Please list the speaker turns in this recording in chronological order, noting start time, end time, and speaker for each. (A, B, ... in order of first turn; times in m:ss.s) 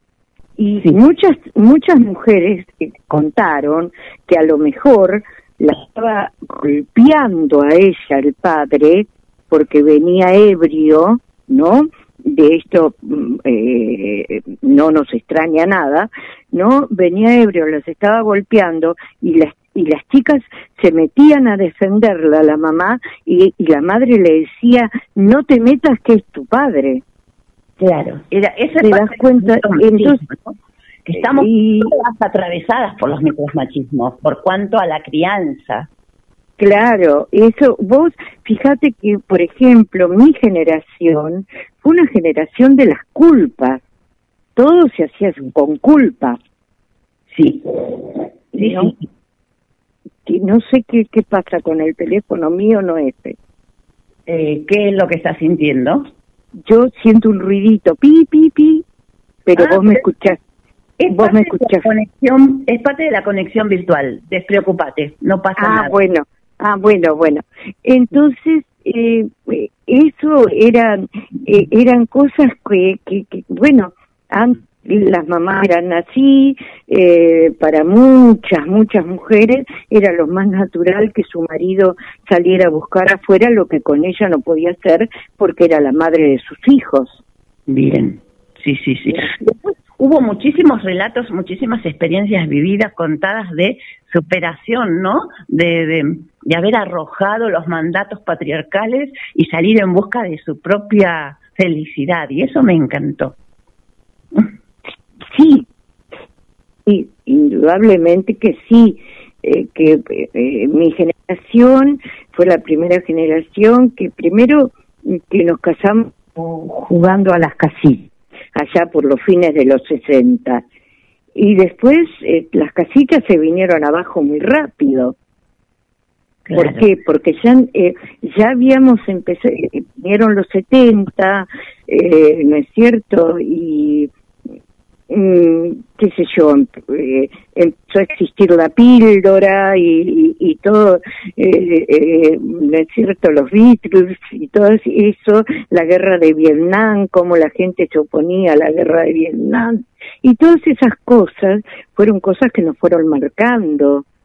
0:00.6-0:27.0 A
0:27.8-0:35.9 B
0:28.8-0:30.2 A
0:31.2-0:31.9 A
0:36.6-0:43.8 A
0:44.6-0:46.4 A
0:47.3-0:49.0 B
0:48.5-0:49.0 A
0:50.3-0:53.4 A
0:54.3-0:56.1 B
0:56.7-0:58.8 A
0:59.5-1:00.4 A
0:59.6-1:00.0 B
1:01.0-1:06.0 B
1:01.1-1:01.9 A
1:05.6-1:27.2 A
1:27.7-1:43.4 B
1:45.3-1:45.7 A
1:46.9-2:00.6 A
2:01.4-2:05.2 A
2:06.5-2:06.9 B
2:06.6-2:14.1 A
2:15.1-2:34.0 A